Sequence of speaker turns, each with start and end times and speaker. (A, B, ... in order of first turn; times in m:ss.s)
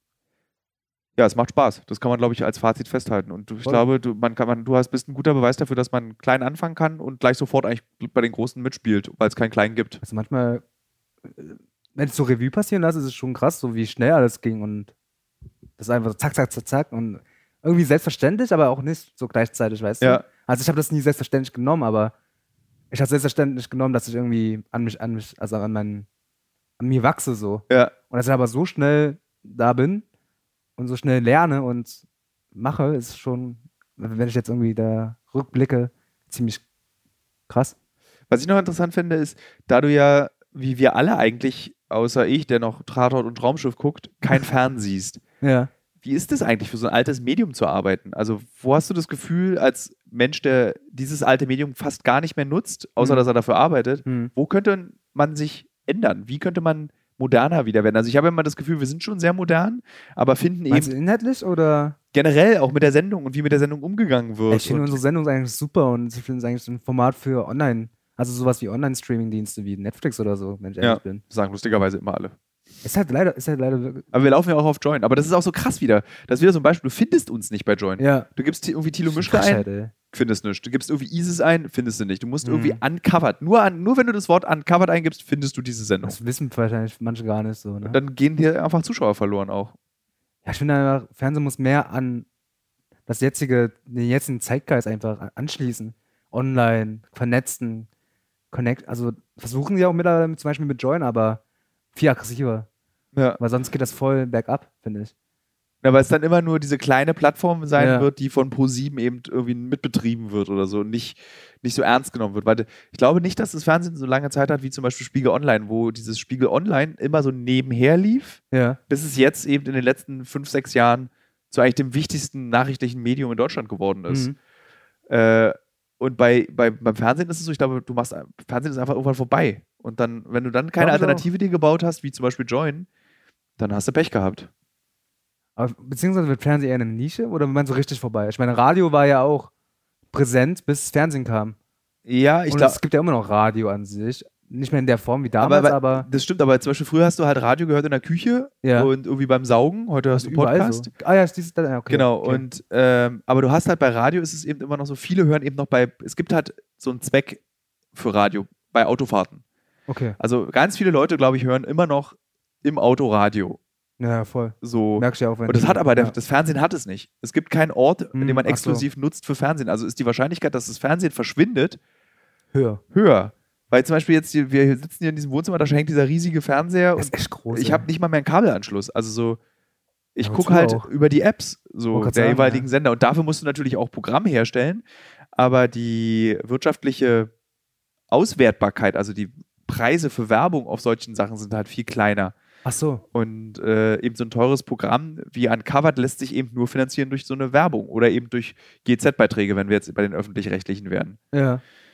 0:01.2-0:10.0 A
0:10.0-0:10.6 B
0:11.3-0:14.9 B
0:15.8-0:22.1 B
0:20.0-0:20.2 A
0:22.9-0:26.0 B
0:26.8-0:30.0 B
0:27.7-0:27.9 A
0:30.8-0:32.0 B
0:32.5-0:36.6 B
0:37.5-0:37.7 B
0:38.3-0:45.2 A
0:45.4-0:45.7 B
0:46.0-1:00.9 A
0:53.0-0:53.3 B
0:54.0-0:54.3 B
1:00.7-1:02.0 B
1:02.1-1:05.0 A
1:04.5-1:11.2 B
1:10.8-1:12.3 A
1:12.8-1:14.1 B
1:14.1-1:26.2 A
1:18.0-1:18.3 B
1:19.1-1:19.9 B
1:22.4-1:22.8 B
1:26.0-1:28.0 B
1:27.8-1:29.7 A
1:30.4-1:32.2 B
1:33.1-1:37.9 B
1:38.5-1:41.4 B
1:41.9-1:42.7 B
1:43.1-1:43.4 A
1:43.4-1:45.1 B
1:45.8-2:04.3 A
1:47.8-1:48.1 B
1:58.5-1:58.8 B
2:04.1-2:04.3 B
2:05.1-2:12.9 A
2:10.8-2:11.2 B
2:13.6-2:14.5 A
2:15.6-2:19.5 B
2:20.1-2:21.6 B
2:22.0-2:22.8 A
2:22.5-2:26.1 B
2:25.4-2:30.9 A
2:28.6-2:28.9 B
2:30.1-2:32.4 B
2:31.9-2:37.4 A
2:37.9-2:39.4 A
2:39.9-2:40.2 B
2:40.2-2:43.6 A
2:44.0-2:46.2 B
2:44.6-2:51.8 A
2:48.1-2:48.9 B
2:52.5-2:52.8 B
2:52.9-2:59.4 A
2:57.0-2:57.8 B
3:00.1-3:04.8 A
3:00.2-3:00.9 B
3:01.9-3:02.7 B
3:05.4-3:07.3 A
3:08.1-3:12.3 A
3:12.6-3:13.0 B
3:13.1-3:21.2 A
3:21.3-3:21.6 B